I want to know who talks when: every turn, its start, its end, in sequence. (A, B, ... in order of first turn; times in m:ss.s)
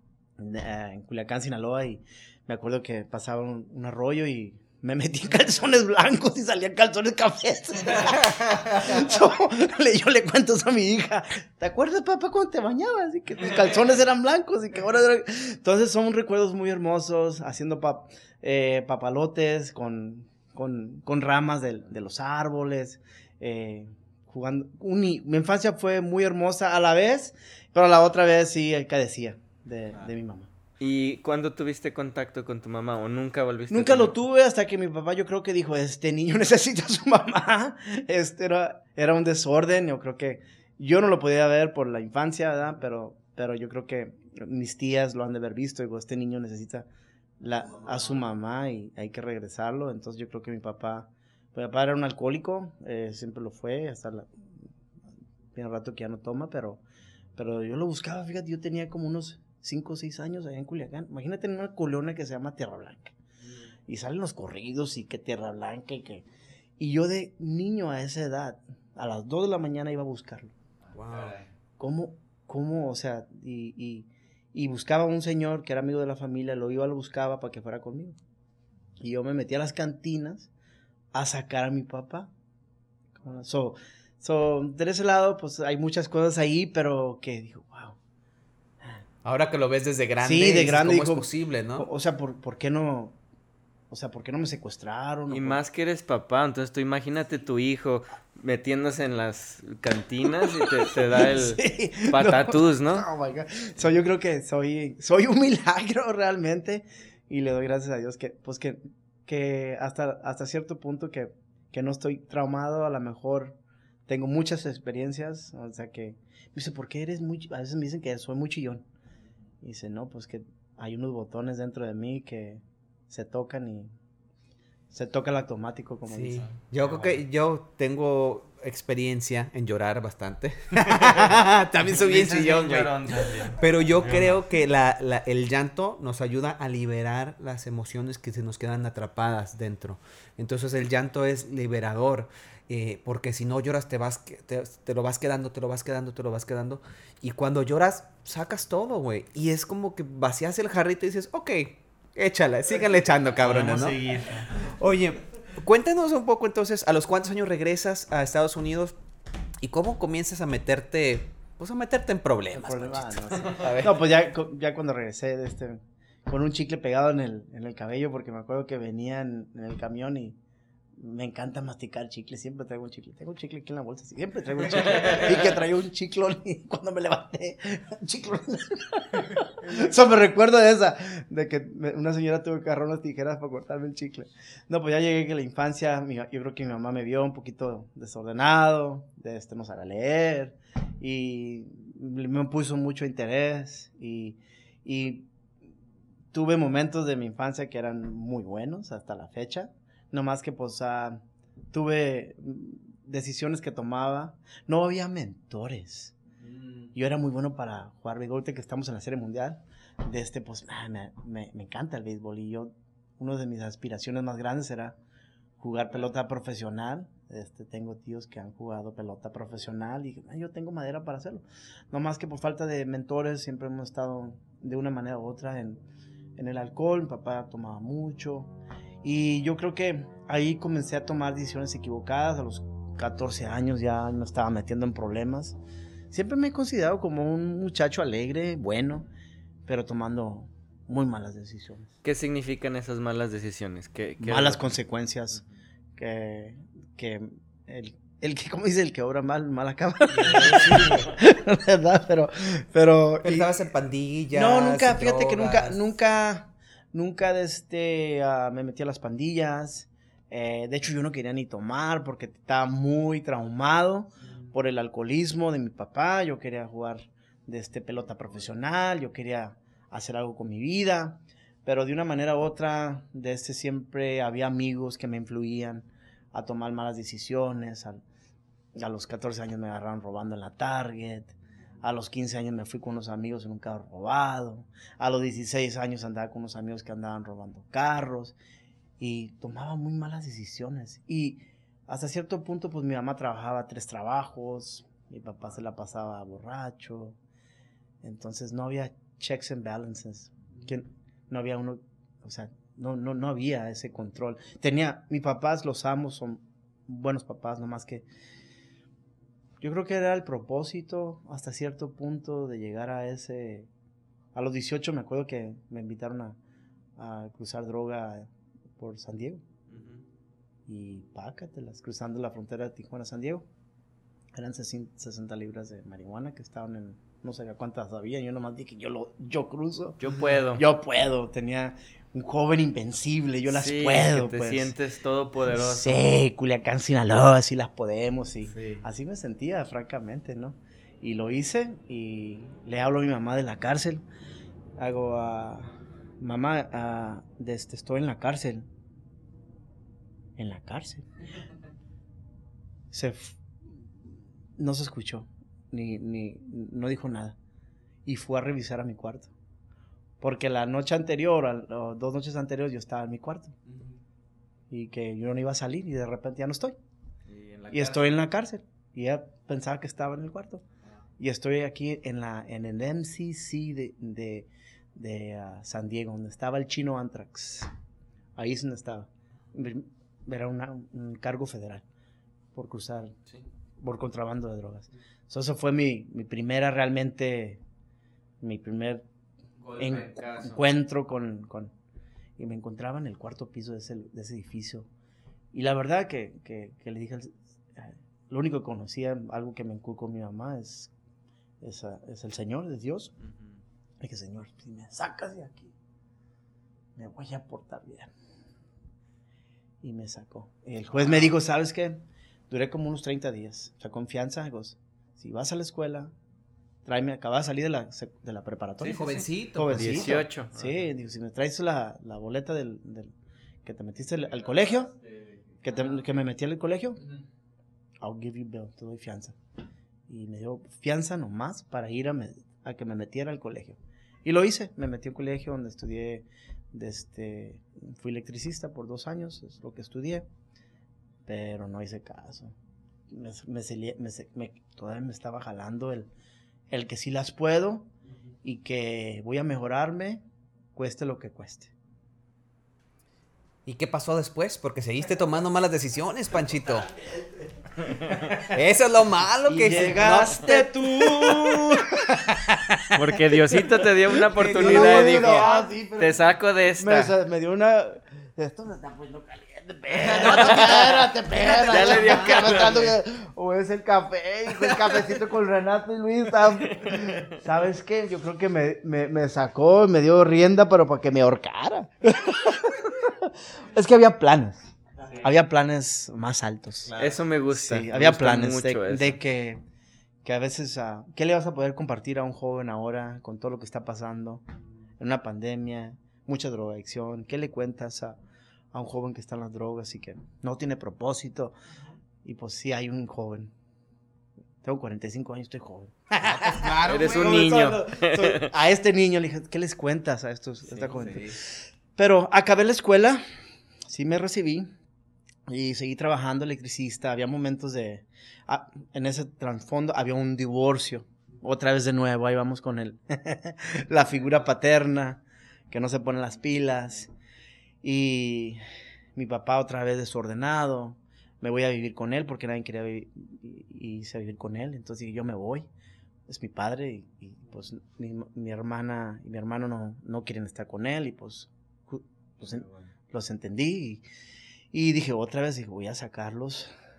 0:00.4-0:30.5 A
0:30.8-0:34.1 B
0:33.7-0:46.9 A
0:47.4-0:54.3 A
0:55.5-0:56.8 A
0:57.4-1:03.2 A
1:03.9-1:06.3 A
1:06.8-1:10.5 A
1:11.0-1:11.4 C
1:11.8-1:18.2 A
1:19.0-1:20.5 A
1:21.1-1:22.3 A
1:23.1-1:28.0 A
1:29.2-1:31.9 C
1:30.2-1:33.2 A
1:33.9-1:35.6 A
1:35.3-1:43.1 B
1:40.5-1:58.9 A
1:59.6-2:03.9 A
2:04.9-2:06.5 A
2:06.1-2:34.0 C
2:11.9-2:14.4 B
2:33.4-2:34.5 B
2:34.6-2:39.0 C
2:39.6-2:44.0 C
2:42.5-2:50.4 A
2:51.0-3:15.3 A
2:54.8-2:55.3 B
3:16.3-3:26.2 A
3:26.8-3:35.0 A
3:35.6-3:45.8 A
3:46.4-3:55.6 A
3:56.1-3:59.1 A
3:59.7-4:01.9 A
4:02.0-4:04.6 B
4:04.2-4:05.4 A
4:06.0-4:13.6 A
4:10.1-4:11.1 C
4:13.2-4:15.8 C
4:14.3-4:38.0 A
4:38.8-4:48.4 A
4:49.0-4:57.2 A
4:58.0-5:08.1 A
5:09.6-5:13.7 A
5:14.4-5:16.4 A
5:17.0-5:19.4 A
5:19.7-5:20.0 B
5:20.7-5:23.5 A
5:24.3-5:34.7 A
5:30.0-5:30.6 B
5:33.5-5:36.0 B
5:35.5-5:44.0 A
5:44.8-5:48.7 A
5:50.4-5:51.1 A
5:52.9-5:53.4 A
5:54.6-5:57.4 A
5:58.1-5:59.3 A
6:00.2-6:03.6 A
6:04.7-6:06.8 A
6:07.3-6:08.1 B
6:07.7-6:10.6 A
6:11.2-6:17.7 A
6:18.4-6:21.8 A
6:22.5-6:23.2 A
6:23.8-6:27.6 A
6:28.4-6:29.0 A
6:29.6-6:30.6 B
6:29.8-6:31.7 A
6:32.4-6:34.9 A
6:35.5-6:40.9 A
6:41.6-6:43.1 A
6:44.0-6:45.7 A
6:47.0-6:48.1 A
6:49.8-6:56.1 A
6:56.8-7:03.1 A
6:58.8-7:00.2 C
6:58.8-7:00.9 B
7:03.6-7:04.9 A
7:05.6-7:07.0 A
7:08.0-7:09.4 A
7:10.1-7:20.3 A
7:21.3-7:22.6 A
7:23.1-7:26.1 A
7:26.7-7:27.9 A
7:28.4-7:30.2 A
7:30.8-7:31.7 A
7:33.7-7:36.9 C
7:37.8-7:38.4 B
7:38.5-7:40.6 C
7:39.5-7:43.8 A
7:40.0-7:40.6 B
7:41.1-7:41.7 B
7:43.0-7:47.1 B
7:44.4-7:45.7 C
7:44.5-7:46.2 A
7:46.8-8:09.6 A
7:50.0-7:50.7 C
7:50.1-7:50.8 B
7:51.3-7:52.6 C
7:51.6-7:52.9 B
7:56.7-7:57.3 B
8:07.0-8:09.2 B
8:10.2-8:14.4 A
8:15.0-8:18.2 A
8:18.7-8:21.5 A
8:22.2-8:23.5 A
8:24.6-8:33.2 A
8:26.3-8:27.4 C
8:26.8-8:28.5 B
8:33.9-8:34.7 A
8:35.5-8:47.1 A
8:47.8-8:48.6 A
8:49.2-8:55.7 A
8:56.3-9:04.0 A
9:04.7-9:06.7 A